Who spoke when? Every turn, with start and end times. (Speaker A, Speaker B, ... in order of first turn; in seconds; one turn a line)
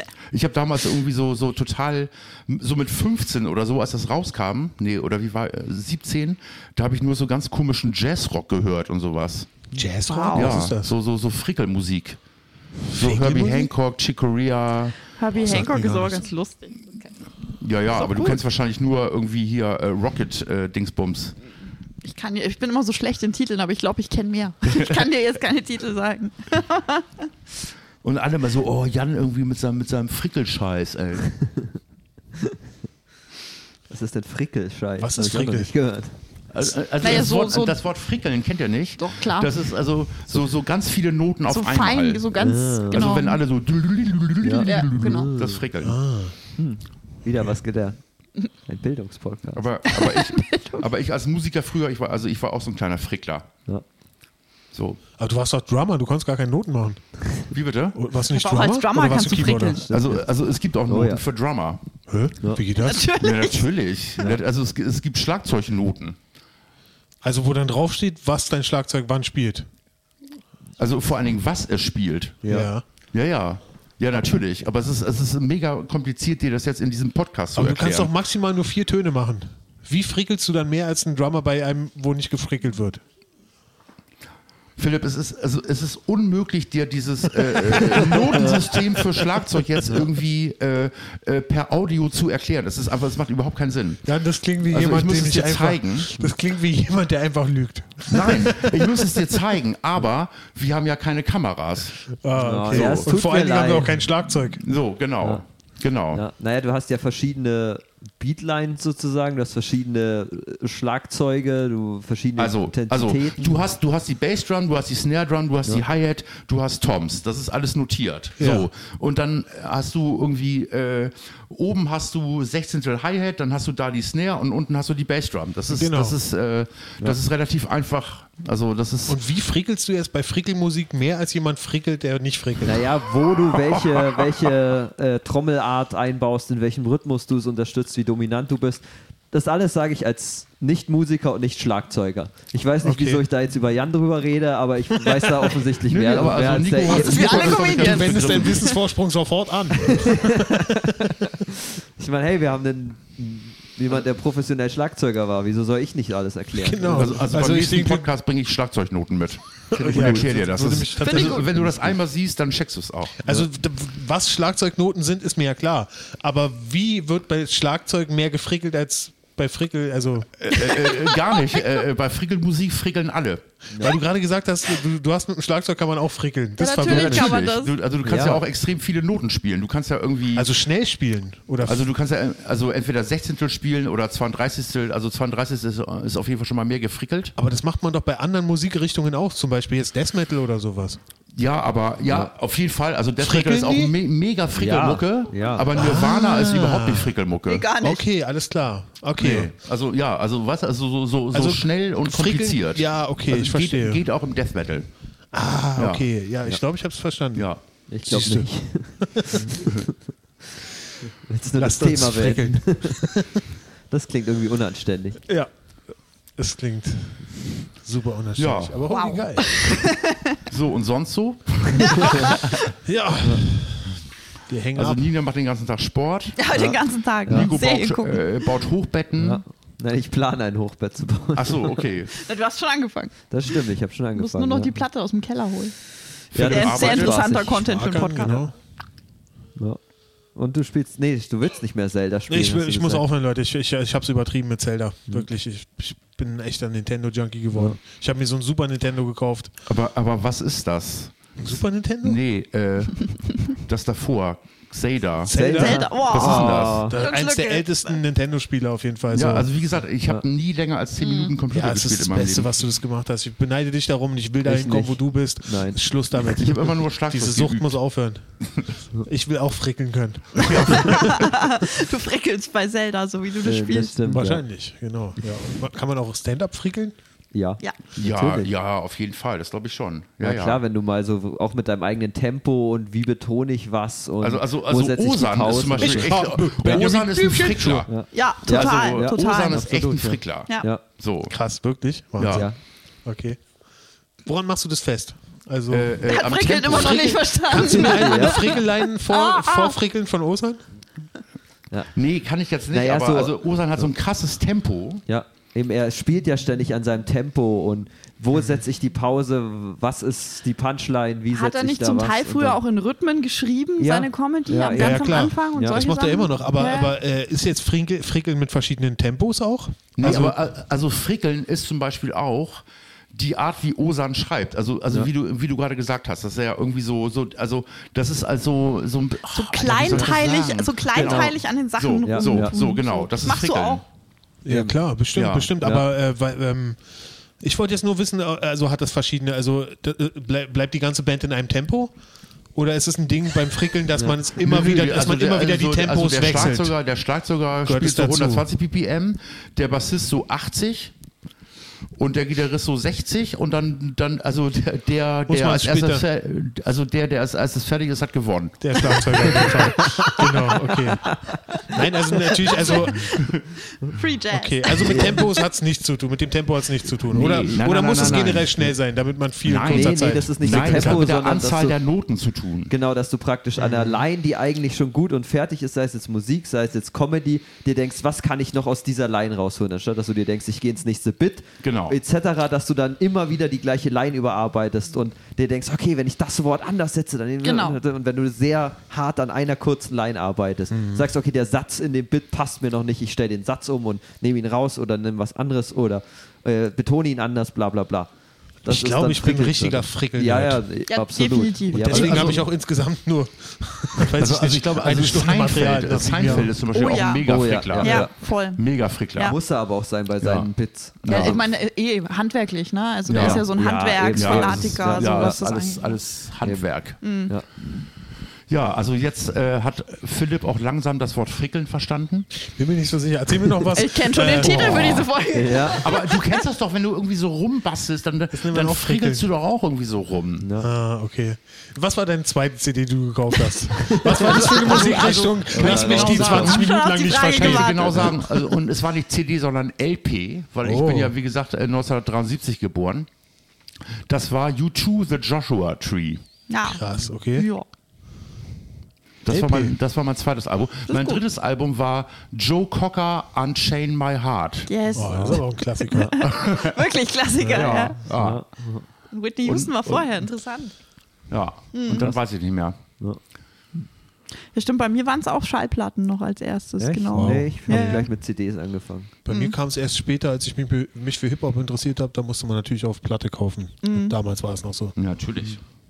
Speaker A: 0.3-9.5
Speaker B: 9.7-10.9
Speaker C: 10.1-10.6
Speaker A: 10.3-12.2
Speaker B: 12.9-13.7
Speaker A: 12.9-15.0
Speaker C: 15.2-17.1
Speaker B: 15.4-16.3
Speaker A: 17.4-21.4
Speaker D: 18.0-18.4
Speaker C: 22.0-27.3
Speaker A: 24.6-25.1
Speaker A: 28.0-31.3
Speaker D: 33.9-36.1
Speaker B: 35.0-35.7
Speaker A: 36.5-42.3
Speaker C: 37.0-37.8
Speaker C: 39.0-39.6
Speaker C: 41.5-43.4
Speaker D: 42.4-43.2
Speaker A: 42.9-46.0
Speaker D: 44.4-45.7
Speaker C: 44.6-45.3
Speaker B: 45.8-46.4
Speaker D: 46.6-49.6
Speaker A: 49.5-53.5
Speaker C: 49.9-50.9
Speaker A: 54.7-55.0
Speaker B: 55.2-57.0
Speaker A: 57.5-58.0
Speaker B: 57.9-59.8
Speaker C: 58.3-59.9
Speaker D: 59.4-60.2
Speaker A: 59.9-61.8
Speaker D: 60.9-61.2
Speaker B: 62.1-63.1
Speaker C: 62.8-63.7
Speaker A: 63.2-66.2
Speaker B: 67.2-69.7
Speaker A: 70.8-72.4
Speaker D: 72.4-72.7
Speaker B: 72.4-72.8
Speaker A: 73.1-78.1
Speaker B: 77.5-83.0
Speaker A: 84.8-94.1
Speaker B: 94.0-99.2
Speaker A: 94.6-96.1
Speaker A: 98.1-102.0
Speaker B: 102.2-104.6
Speaker D: 102.3-104.0
Speaker A: 102.7-103.1
Speaker A: 104.6-106.2
Speaker D: 106.1-113.6
Speaker A: 112.4-129.2
Speaker B: 118.4-118.7
Speaker B: 125.7-126.2
Speaker B: 129.1-132.9
Speaker D: 132.6-147.4
Speaker A: 133.3-134.5
Speaker B: 142.8-143.2
Speaker A: 145.8-148.8
Speaker C: 146.8-148.6
Speaker B: 147.2-151.1
Speaker D: 150.0-157.2
Speaker B: 156.6-158.1
Speaker A: 156.9-163.2
Speaker D: 159.7-160.3
Speaker B: 159.7-162.0
Speaker C: 161.0-161.4
Speaker B: 163.2-170.3
Speaker A: 170.4-173.4
Speaker C: 170.5-171.6
Speaker B: 173.8-177.3
Speaker C: 176.6-177.7
Speaker A: 176.9-180.5
Speaker D: 178.0-178.4
Speaker B: 180.3-181.9
Speaker A: 181.6-187.3
Speaker B: 187.4-191.0
Speaker A: 191.3-197.7
Speaker B: 193.2-193.9
Speaker D: 194.6-195.7
Speaker B: 195.7-197.2
Speaker C: 197.5-198.1
Speaker B: 197.8-199.5
Speaker A: 199.2-204.9
Speaker B: 201.3-204.0
Speaker B: 205.3-207.5
Speaker A: 205.8-206.1
Speaker A: 207.4-207.6
Speaker D: 207.9-209.9
Speaker B: 208.1-209.6
Speaker A: 209.6-209.8
Speaker D: 211.2-215.2
Speaker B: 211.6-213.4
Speaker B: 216.4-219.5
Speaker A: 218.4-219.0
Speaker C: 218.9-220.4
Speaker A: 220.5-222.7
Speaker D: 221.7-222.4
Speaker C: 222.0-222.4
Speaker B: 222.8-225.1
Speaker A: 224.8-226.5
Speaker C: 226.4-228.5
Speaker D: 226.5-227.5
Speaker A: 227.3-229.4
Speaker D: 229.2-231.9
Speaker A: 231.3-232.1
Speaker C: 232.2-233.1
Speaker D: 233.3-234.9
Speaker C: 234.2-235.8
Speaker D: 236.3-237.8
Speaker A: 236.3-237.3
Speaker C: 236.5-238.5
Speaker B: 237.5-238.5
Speaker D: 240.3-243.0
Speaker B: 242.3-249.5
Speaker A: 249.7-251.5
Speaker B: 251.4-252.2
Speaker A: 252.0-255.4
Speaker B: 255.2-259.5
Speaker D: 255.3-257.0
Speaker C: 255.6-257.9
Speaker A: 255.9-256.9
Speaker A: 259.1-262.6
Speaker C: 261.0-261.3
Speaker B: 261.5-268.2
Speaker D: 264.4-265.8
Speaker A: 266.1-267.8
Speaker B: 269.1-271.3
Speaker A: 270.4-271.2
Speaker C: 270.9-274.0
Speaker D: 273.4-274.4
Speaker B: 274.1-276.9
Speaker D: 277.3-278.5
Speaker A: 278.0-280.6
Speaker D: 280.2-286.8
Speaker A: 284.2-287.9
Speaker B: 285.8-287.8
Speaker C: 286.8-289.6
Speaker D: 287.9-290.8
Speaker A: 288.4-291.4
Speaker B: 291.3-292.5
Speaker A: 292.2-292.5
Speaker D: 292.2-292.6
Speaker B: 293.1-293.4
Speaker B: 294.2-296.0
Speaker A: 295.7-297.2
Speaker C: 296.1-299.8
Speaker B: 296.7-300.6
Speaker D: 297.5-298.6
Speaker A: 301.9-305.0
Speaker D: 302.7-303.9
Speaker D: 305.1-312.6
Speaker C: 311.3-317.0
Speaker D: 313.8-315.8
Speaker B: 314.7-320.4
Speaker A: 320.0-333.8
Speaker C: 329.3-333.8
Speaker D: 330.9-331.4
Speaker D: 332.1-332.6
Speaker B: 334.4-336.8
Speaker D: 334.5-334.8
Speaker A: 335.1-335.5
Speaker D: 335.6-335.9
Speaker B: 337.4-341.9
Speaker B: 342.6-346.7
Speaker A: 344.4-350.9
Speaker B: 347.6-348.5
Speaker A: 352.0-359.8
Speaker B: 355.3-356.1
Speaker B: 358.6-361.2
Speaker D: 360.2-361.4
Speaker B: 361.7-363.2
Speaker C: 362.5-362.9
Speaker A: 363.1-363.4
Speaker C: 363.8-365.2
Speaker B: 364.3-371.1
Speaker D: 364.8-365.2
Speaker A: 367.1-368.6
Speaker A: 369.4-372.7
Speaker D: 369.6-371.8
Speaker D: 372.7-398.1
Speaker B: 373.6-374.0
Speaker A: 381.6-382.0
Speaker C: 387.4-387.8
Speaker B: 390.7-391.1
Speaker D: 398.6-402.4
Speaker B: 398.7-400.6
Speaker C: 400.9-402.1
Speaker B: 401.7-406.6
Speaker A: 401.9-402.4
Speaker A: 404.0-409.4
Speaker C: 406.7-408.6
Speaker D: 407.0-408.1
Speaker D: 409.2-411.5
Speaker A: 410.2-410.5
Speaker A: 411.0-411.5
Speaker C: 411.1-415.9
Speaker D: 413.1-415.9
Speaker A: 413.1-413.5
Speaker A: 414.1-417.0
Speaker C: 417.0-417.3
Speaker D: 417.3-417.6
Speaker A: 418.5-422.3
Speaker B: 422.4-425.1
Speaker C: 423.7-426.4
Speaker D: 425.3-425.9
Speaker A: 425.8-430.5
Speaker B: 428.3-429.3
Speaker D: 430.4-430.7
Speaker B: 430.6-438.1
Speaker D: 433.8-436.6
Speaker C: 434.1-438.5
Speaker A: 434.6-436.7
Speaker A: 437.3-443.1
Speaker B: 440.6-441.1
Speaker A: 444.1-446.2
Speaker C: 446.5-446.8
Speaker B: 446.7-447.5
Speaker C: 447.3-447.7
Speaker A: 449.2-454.7
Speaker B: 449.3-449.7
Speaker C: 450.9-451.2
Speaker C: 454.7-458.0
Speaker B: 454.9-456.3
Speaker A: 456.2-456.9
Speaker B: 457.4-457.9
Speaker A: 457.5-458.4
Speaker D: 458.1-458.9
Speaker C: 459.1-460.7
Speaker A: 459.4-460.1
Speaker A: 461.3-462.8
Speaker C: 461.7-462.1
Speaker C: 464.5-468.1
Speaker D: 466.8-469.1
Speaker B: 467.1-468.1
Speaker B: 469.3-474.9
Speaker C: 469.3-469.6
Speaker C: 473.8-474.2
Speaker A: 475.0-475.6